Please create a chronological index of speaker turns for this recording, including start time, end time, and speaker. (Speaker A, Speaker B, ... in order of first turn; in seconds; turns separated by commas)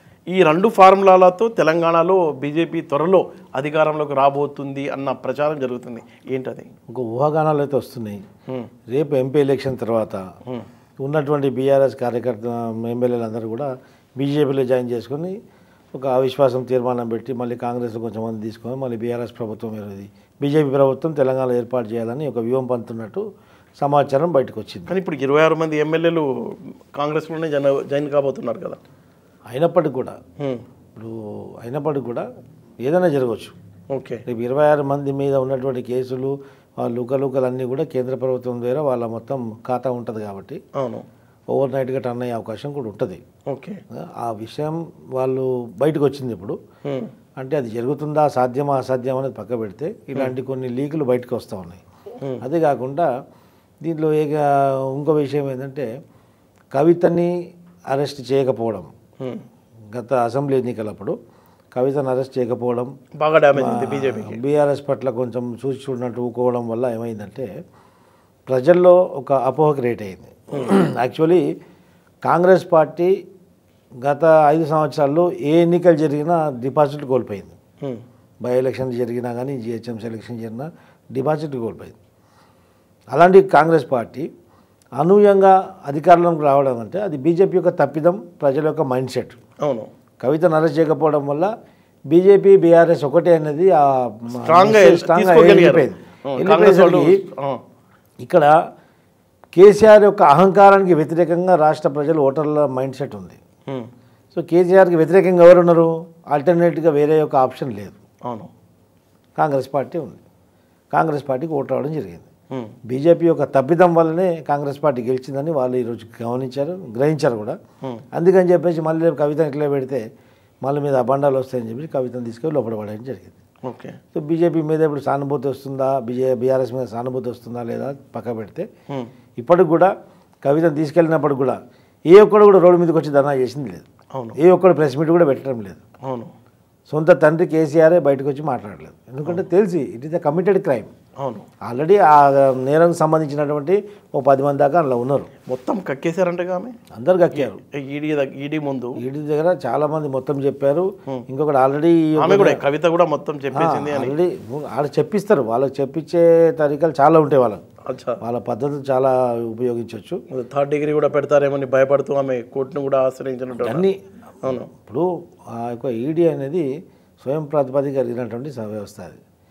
Speaker A: 0.3-6.7, Speaker B: 6.9-8.2, Speaker B: 8.9-10.3, Speaker B: 11.0-15.4, Speaker B: 15.9-23.2, Speaker B: 23.8-25.0, Speaker A: 24.9-28.8, Speaker B: 29.5-30.2, Speaker B: 31.0-32.2, Speaker B: 32.8-33.6, Speaker A: 33.9-34.2, Speaker B: 34.3-40.6, Speaker A: 40.8-41.0, Speaker B: 41.5-43.2, Speaker A: 43.5-43.8, Speaker B: 43.9-46.6, Speaker B: 47.4-51.8, Speaker B: 52.4-53.1, Speaker B: 53.8-55.9, Speaker B: 56.7-57.3, Speaker B: 57.9-58.9, Speaker B: 59.9-61.2, Speaker B: 61.7-62.9, Speaker A: 63.2-64.4, Speaker B: 63.5-67.5, Speaker B: 68.5-71.4, Speaker B: 72.2-73.1, Speaker B: 74.0-77.5, Speaker B: 78.4-82.0, Speaker B: 83.1-84.3, Speaker B: 85.0-89.4, Speaker A: 89.6-89.9, Speaker B: 90.2-91.5, Speaker B: 92.1-97.2, Speaker A: 94.4-97.6, Speaker B: 98.2-98.5, Speaker B: 99.5-103.4, Speaker B: 104.3-108.0, Speaker B: 109.4-110.2, Speaker B: 110.9-112.3, Speaker B: 112.9-117.6, Speaker B: 118.1-120.0, Speaker B: 120.6-123.4, Speaker A: 123.6-124.0, Speaker B: 124.1-128.7, Speaker B: 129.4-129.9, Speaker B: 130.4-135.8, Speaker A: 134.1-134.4, Speaker A: 136.0-136.3, Speaker B: 136.9-140.9, Speaker A: 141.2-141.5, Speaker B: 141.7-145.3, Speaker A: 145.4-146.8, Speaker B: 146.9-147.6, Speaker A: 147.3-149.0, Speaker B: 149.0-152.6, Speaker A: 152.2-154.2, Speaker B: 153.5-157.6, Speaker A: 157.9-158.2, Speaker B: 158.2-160.2, Speaker A: 160.3-163.9, Speaker B: 163.6-164.0, Speaker A: 164.4-164.7, Speaker B: 164.5-166.7, Speaker B: 167.2-169.2